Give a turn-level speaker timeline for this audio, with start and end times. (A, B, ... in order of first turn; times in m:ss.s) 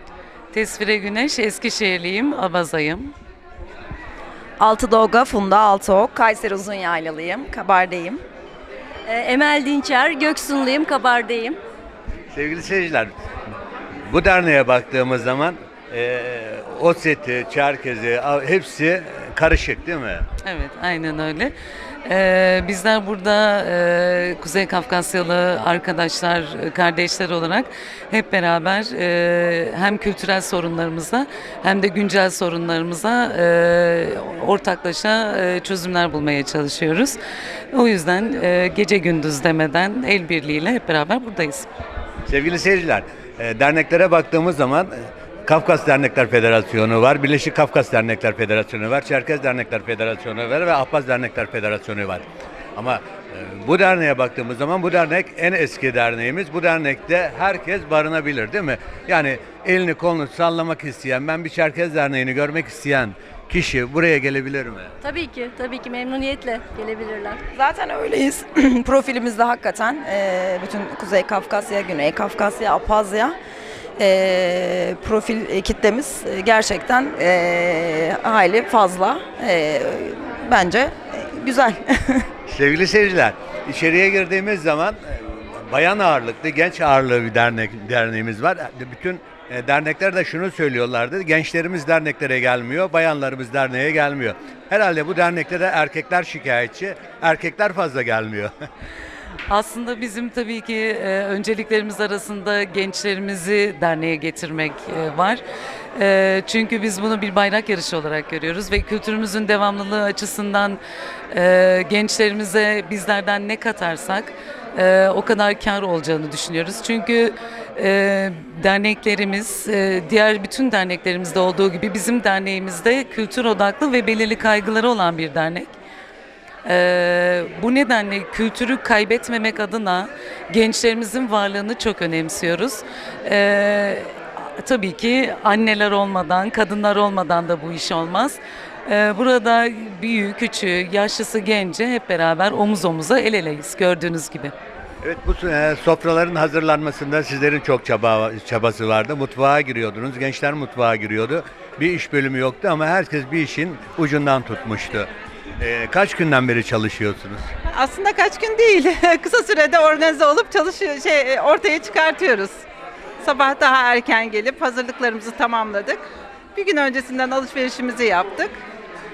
0:00.5-0:03.1 A
0:04.6-0:08.2 B
0:09.0-0:11.6 C
0:12.3-0:13.1 D
0:14.1-0:20.2 D
0:20.4-0:21.5 A
0:22.0-0:37.2 A
0:37.7-0:41.7 A
0:42.3-0:44.9 D
0:45.4-0:52.2 D
0:52.8-1:04.9 D
1:05.0-1:07.4 C
1:07.5-1:13.4 B
1:14.0-1:22.3 B
1:22.5-1:38.5 D
1:39.5-1:45.4 A
1:45.9-2:05.7 A
2:06.6-2:24.5 A
2:25.0-2:37.5 D
2:37.7-2:42.6 E
2:43.2-2:46.0 E
2:46.5-2:48.6 E